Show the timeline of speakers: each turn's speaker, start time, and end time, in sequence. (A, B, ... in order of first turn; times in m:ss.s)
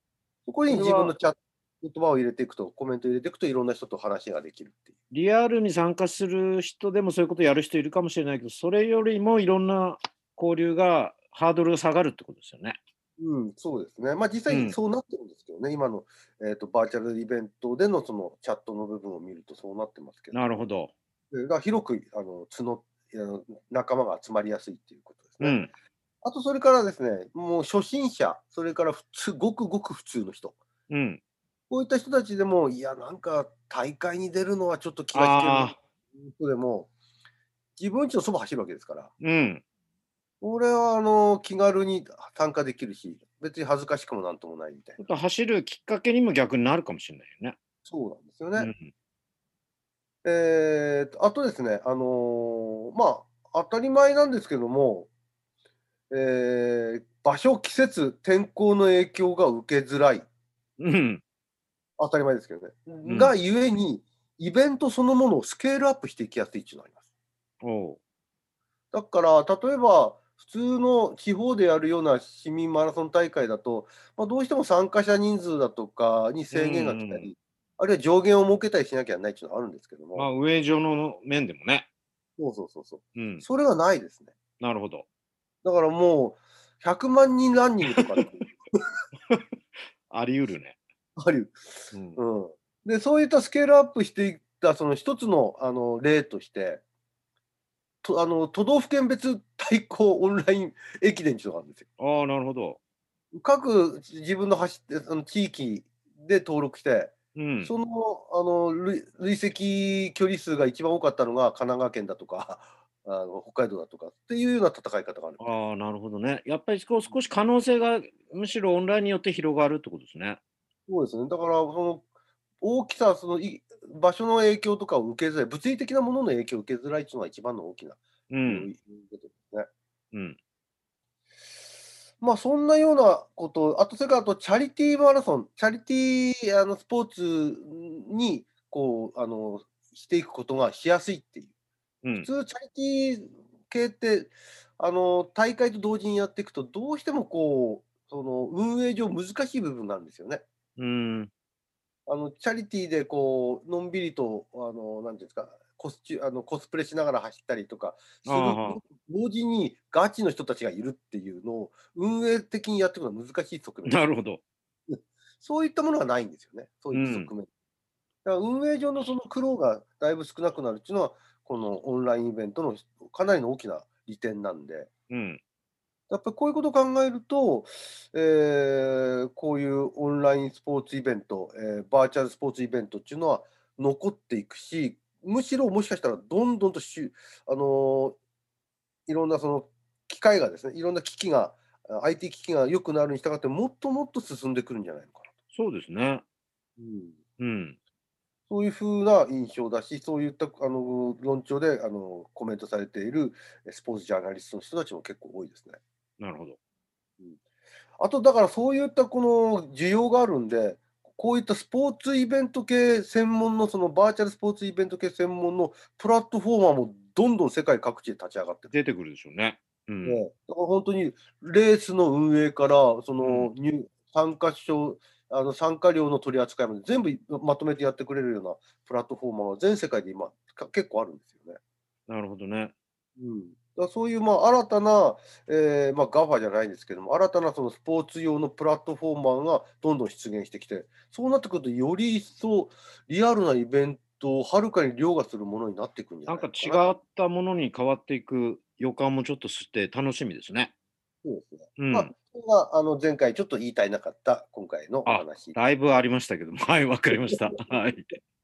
0:00.5-0:04.9 A
0:00.7-0:01.1 B
0:05.1-0:12.8 B
0:13.2-0:20.6 A
0:14.5-0:14.8 B
0:20.3-0:20.9 B
0:21.3-0:25.6 A
0:25.4-0:25.7 B
0:26.2-0:30.6 A
0:30.9-0:31.2 B
0:31.7-0:36.9 A
0:35.1-0:35.8 B
0:37.8-0:39.1 A
0:39.2-0:39.6 B
0:40.4-0:45.0 A
0:45.0-0:47.6 B
0:47.8-0:48.7 A
0:48.6-0:48.9 B
0:50.2-0:55.1 A
0:56.1-1:00.3 A
1:00.8-1:01.2 B
1:02.0-1:07.0 A
1:03.0-1:03.3 B
1:07.6-1:08.0 B
1:08.9-1:20.3 A
1:16.5-1:17.3 B
1:20.2-1:21.9 B
1:22.4-1:24.3 A
1:23.2-1:23.4 B
1:24.6-1:25.1 B
1:25.6-1:28.6 A
1:30.1-1:30.8 B
1:31.2-1:36.8 A
1:31.9-1:32.2 B
1:38.0-1:41.8 A
1:42.0-1:42.8 B
1:43.3-1:55.5 A
1:47.4-1:47.7 B
1:55.4-2:00.4 B
2:00.9-2:02.1 A
2:02.6-2:09.7 A
2:08.3-2:08.7 B
2:12.2-2:21.5 A
2:22.2-2:30.4 A
2:30.8-2:31.3 B
2:32.1-2:44.0 A
2:38.3-2:38.8 B
2:43.8-2:44.4 B
2:44.9-2:47.5 A
2:46.9-2:47.3 B
2:48.2-2:54.9 A
2:55.1-2:55.4 B
2:56.1-3:08.2 A
3:09.1-3:15.3 A
3:15.5-3:16.2 B
3:16.8-3:17.2 A
3:17.4-3:17.8 B
3:18.5-3:25.8 A
3:26.2-3:26.6 B
3:28.0-3:38.7 A
3:38.7-3:40.2 B
3:40.0-3:51.6 A
3:43.2-3:43.5 B
3:52.1-3:52.7 B
3:53.2-4:07.0 A
4:06.3-4:10.7 B
4:11.2-4:15.6 A
4:11.8-4:12.1 B
4:15.1-4:18.2 B
4:17.5-4:17.8 A